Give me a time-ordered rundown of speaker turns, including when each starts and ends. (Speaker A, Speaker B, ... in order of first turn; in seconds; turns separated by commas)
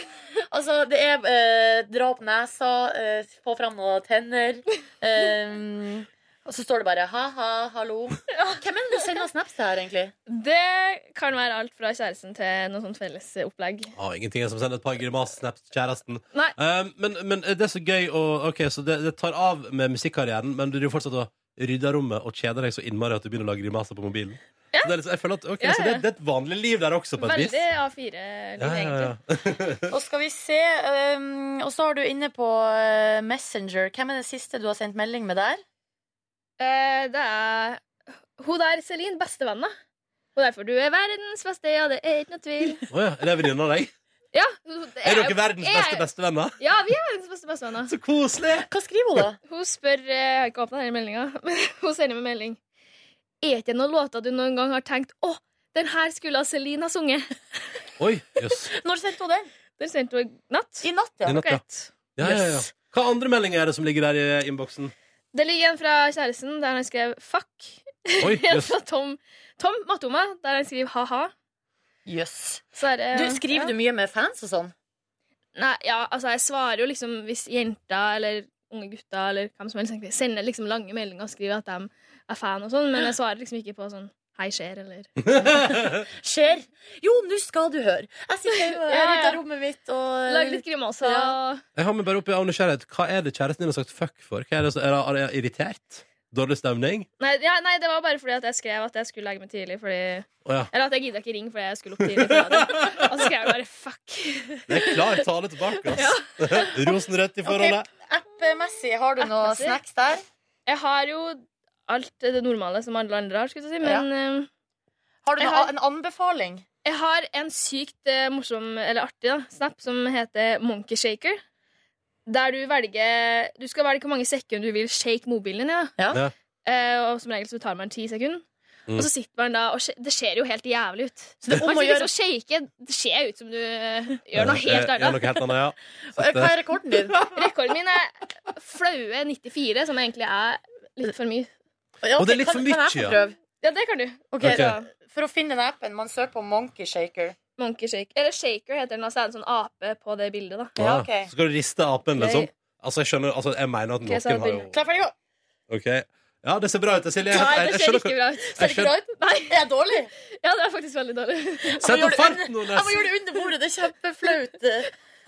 Speaker A: 0.5-10.1, Speaker B: 8.3-9.1, Speaker B: 10.3-13.9, Speaker C: 13.9-27.6, Speaker B: 25.6-26.0, Speaker B: 27.2-29.1, Speaker C: 28.6-29.9, Speaker A: 29.9-35.6, Speaker B: 36.6-37.8, Speaker B: 38.4-39.7, Speaker B: 40.4-42.9, Speaker C: 42.9-43.9, Speaker B: 44.3-46.0, Speaker C: 45.0-46.6, Speaker B: 46.6-47.9, Speaker C: 47.9-48.7, Speaker A: 48.7-49.4, Speaker B: 49.5-52.6, Speaker B: 53.4-57.8, Speaker C: 58.0-58.7, Speaker A: 58.7-59.5, Speaker B: 59.8-61.9, Speaker A: 60.8-61.4, Speaker C: 61.2-61.6, Speaker C: 62.1-64.9, Speaker A: 62.2-62.7, Speaker B: 65.3-71.3, Speaker C: 68.2-68.7, Speaker A: 72.0-74.7, Speaker B: 72.7-73.7, Speaker B: 75.5-85.3, Speaker A: 86.1-91.3, Speaker B: 88.5-89.4, Speaker B: 90.3-91.6, Speaker C: 91.7-97.1, Speaker B: 97.2-107.0, Speaker C: 100.4-100.7, Speaker C: 102.1-103.0, Speaker C: 104.7-107.9, Speaker A: 107.4-110.2, Speaker B: 109.2-109.8, Speaker B: 110.7-114.5, Speaker A: 115.2-116.6, Speaker B: 115.4-115.7, Speaker B: 116.8-121.4, Speaker B: 122.3-126.0, Speaker B: 126.6-135.4, Speaker A: 131.4-132.1, Speaker C: 134.3-137.4, Speaker A: 136.1-137.2, Speaker B: 137.2-141.5, Speaker A: 142.0-143.3, Speaker C: 142.2-143.2, Speaker B: 143.5-144.9, Speaker A: 144.3-147.3, Speaker C: 144.4-144.8, Speaker B: 147.6-150.8, Speaker C: 150.8-154.7, Speaker A: 150.8-151.3, Speaker B: 152.2-152.5, Speaker B: 154.0-154.7, Speaker A: 154.7-155.1, Speaker C: 155.7-159.0, Speaker A: 157.3-157.8, Speaker B: 157.3-159.6, Speaker A: 158.4-160.1, Speaker B: 160.3-161.9, Speaker A: 161.8-164.9, Speaker C: 161.8-163.1